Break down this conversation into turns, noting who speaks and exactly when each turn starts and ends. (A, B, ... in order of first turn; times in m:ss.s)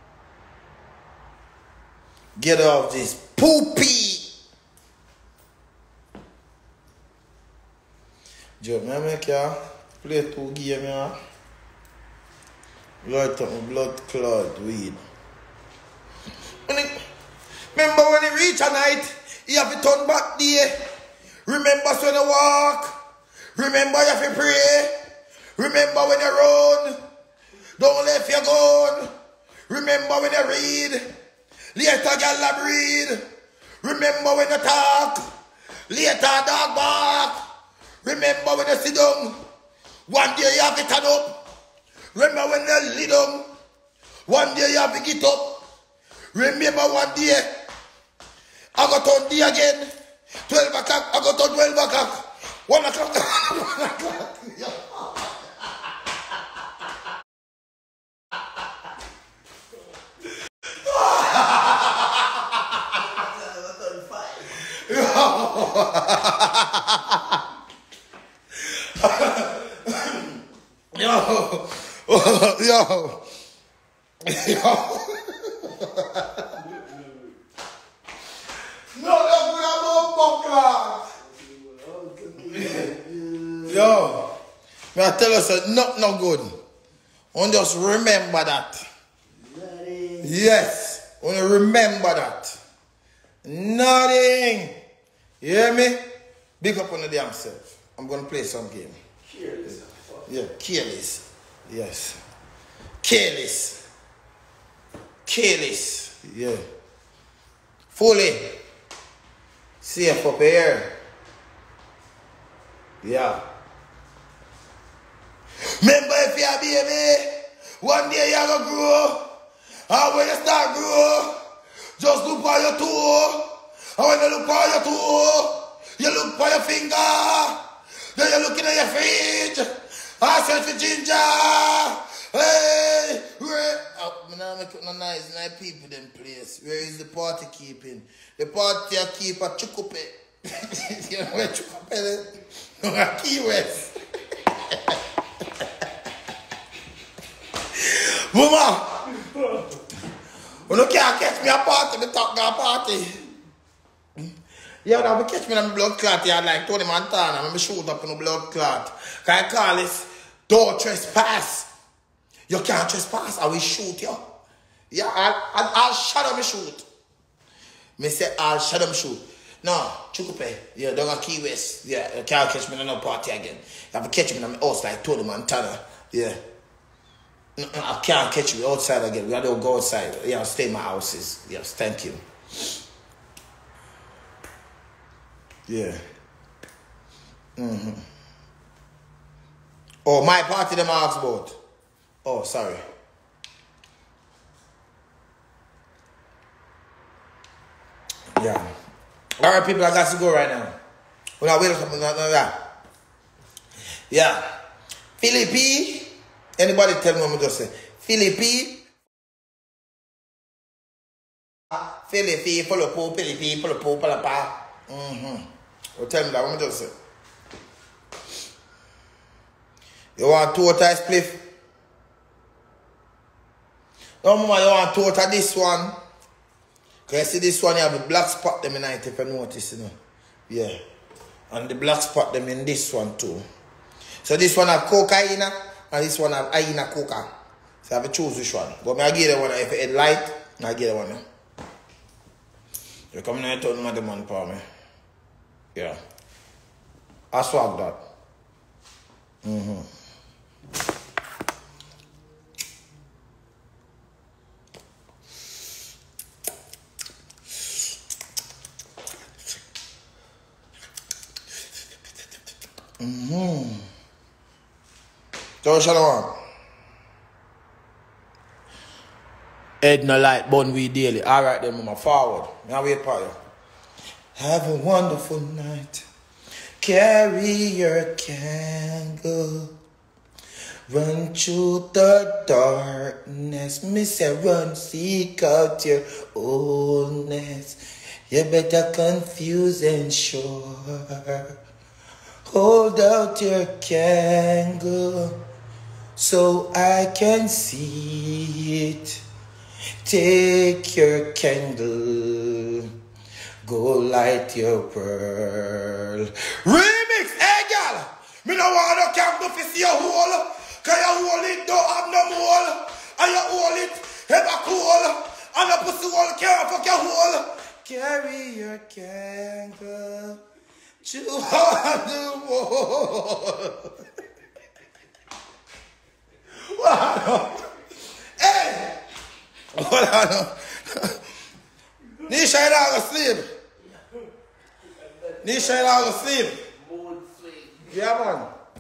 0:02.4-0:04.3 A
0:08.6-0:11.2 A
0:13.0-0:15.0 A
0:16.7-0:17.0 A
0:17.7-0:20.8 A
0:21.4-0:23.0 A
0:23.5-0:24.9 A
0:25.6-0:27.0 A
0:27.8-0:29.1 A
0:29.7-0:31.0 A
0:31.7-0:33.2 A
0:33.8-0:35.3 A
0:35.9-0:37.4 A
0:38.0-0:39.4 A
0:40.1-0:41.4 A
0:42.1-0:43.4 A
0:44.3-0:45.6 A
0:46.3-0:47.5 A
0:48.8-0:49.9 A
0:50.4-0:55.3 A
1:00.8-1:02.2 A
1:02.9-1:04.7 B
1:04.6-1:07.4 A
1:08.6-1:10.3 A
1:10.9-1:13.2 A
1:14.2-1:16.6 A
1:16.5-1:17.4 B
1:18.9-1:21.0 A
1:21.2-1:24.1 B
1:23.6-1:24.3 A
1:24.9-1:26.6 A
1:27.3-1:28.9 A
1:29.4-1:30.4 B
1:30.2-1:32.6 A
1:33.4-1:34.8 A
1:35.4-1:36.0 A
1:36.6-1:39.0 A
1:39.2-1:40.3 B
1:40.3-1:42.2 A
1:43.0-1:43.8 A
1:45.2-1:46.6 A
1:47.9-1:48.6 A
1:49.8-1:50.9 A
1:53.0-1:53.4 A
1:55.8-1:59.3 A
1:59.9-2:01.4 A
2:02.0-2:23.9 A
2:24.7-2:25.0 A
2:27.7-2:29.0 A
2:30.7-2:33.2 A
2:34.8-2:41.7 A
2:42.5-2:44.4 A
2:44.9-2:46.9 A
2:48.0-2:56.4 A
2:57.6-3:02.2 A
3:05.7-3:06.0 A
3:07.6-3:08.0 A
3:10.0-3:11.6 A
3:12.2-3:12.8 A
3:18.4-3:18.7 A
3:19.4-3:20.8 A
3:21.4-3:22.6 A
3:24.1-3:24.5 A
3:25.2-3:28.8 A
3:32.0-3:36.9 A
3:40.2-3:41.4 A
3:44.2-3:46.0 A
3:47.1-3:49.9 A
3:50.5-3:50.8 A
3:51.5-3:53.4 A
3:54.2-3:57.3 A
3:57.8-4:01.2 A
4:03.1-4:04.6 A
4:05.7-4:06.0 A
4:07.3-4:08.0 A
4:09.4-4:09.9 A
4:23.0-4:23.9 A
4:25.6-4:26.3 A
4:29.8-4:33.4 A
4:34.4-4:36.0 A
4:36.8-4:39.7 A
4:40.9-4:51.5 A
4:52.4-4:55.4 A
4:56.2-4:59.2 A
5:00.0-5:02.9 A
5:03.6-5:20.4 A
5:21.0-5:24.0 A
5:26.6-5:27.7 A
5:28.4-5:29.0 A
5:29.7-5:31.2 A
5:32.2-5:33.5 A
5:34.8-5:38.0 B
5:35.4-5:36.6 A
5:37.9-5:38.5 A